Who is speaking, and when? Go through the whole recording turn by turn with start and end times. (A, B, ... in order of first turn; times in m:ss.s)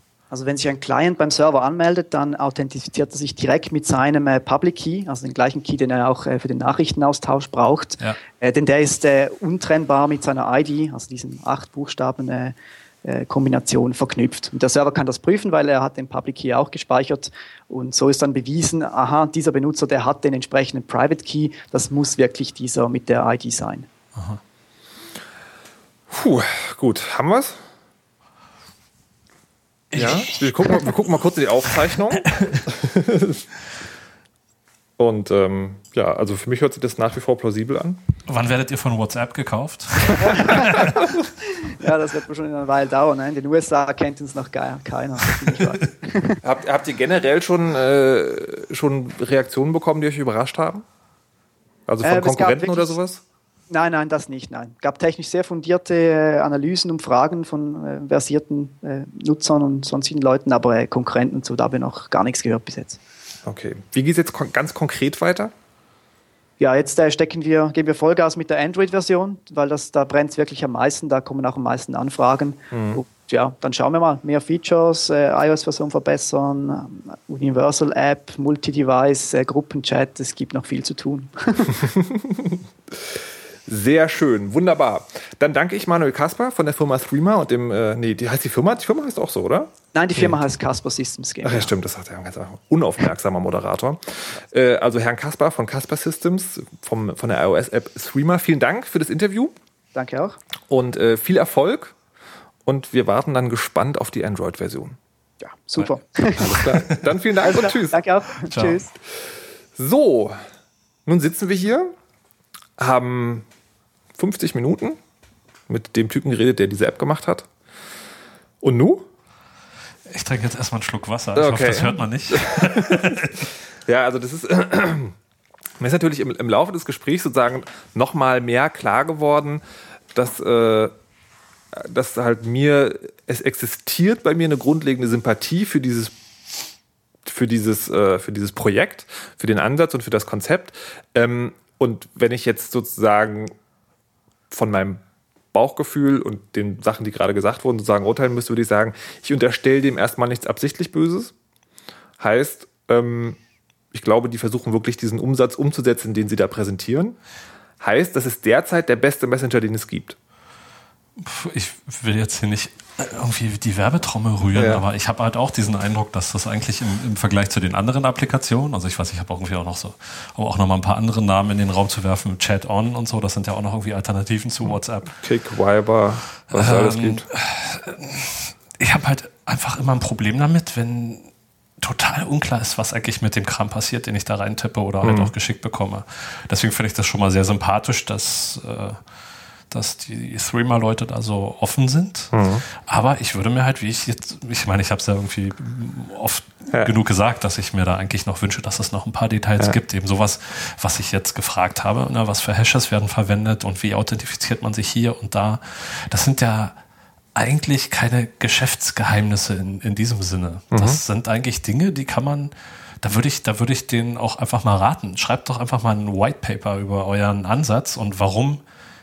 0:00.3-0:23.9 A
0:24.1-0:24.4 B
0:26.1-0:27.6 C
0:29.9-0:30.9 B
0:29.9-0:33.4 C
0:32.3-0:32.6 B
0:35.0-0:38.0 C
0:38.3-0:41.1 B
0:40.3-0:40.9 A
0:41.6-0:46.4 A
0:46.4-0:50.8 C
0:51.9-0:53.2 C
0:52.0-0:52.9 A
0:53.7-1:03.0 A
1:03.4-1:05.5 C
1:06.6-1:21.8 A
1:12.7-1:13.0 C
1:21.8-1:22.6 C
1:23.6-1:30.4 C
1:29.9-1:31.7 A
1:31.4-1:39.5 C
1:39.9-1:40.4 A
1:40.7-1:41.9 C
1:42.6-1:45.0 C
1:45.4-1:46.8 A
1:46.4-1:48.0 C
1:46.4-1:47.0 B
1:47.4-1:48.9 A
1:48.5-1:48.8 B
1:49.8-1:50.4 C
1:51.0-1:51.9 C
1:52.8-1:53.4 C
1:54.2-1:55.0 C
1:55.7-1:57.5 C
1:58.6-1:59.1 C
2:00.1-2:03.5 B
2:01.4-2:03.2 C
2:03.8-2:05.1 C
2:05.8-2:09.6 C
2:10.1-2:10.9 C
2:11.7-2:16.1 C
2:17.2-2:23.5 C
2:24.5-2:31.3 C
2:32.2-2:33.4 C
2:33.9-2:37.2 C
2:37.8-2:40.2 C
2:41.2-2:55.2 B
2:44.5-2:44.8 C
2:54.6-2:57.2 C
2:56.5-3:01.3 B
3:01.8-3:09.0 B
3:05.0-3:05.3 C
3:09.7-3:26.8 B
3:12.3-3:12.6 C
3:27.3-3:38.6 B
3:30.7-3:31.0 C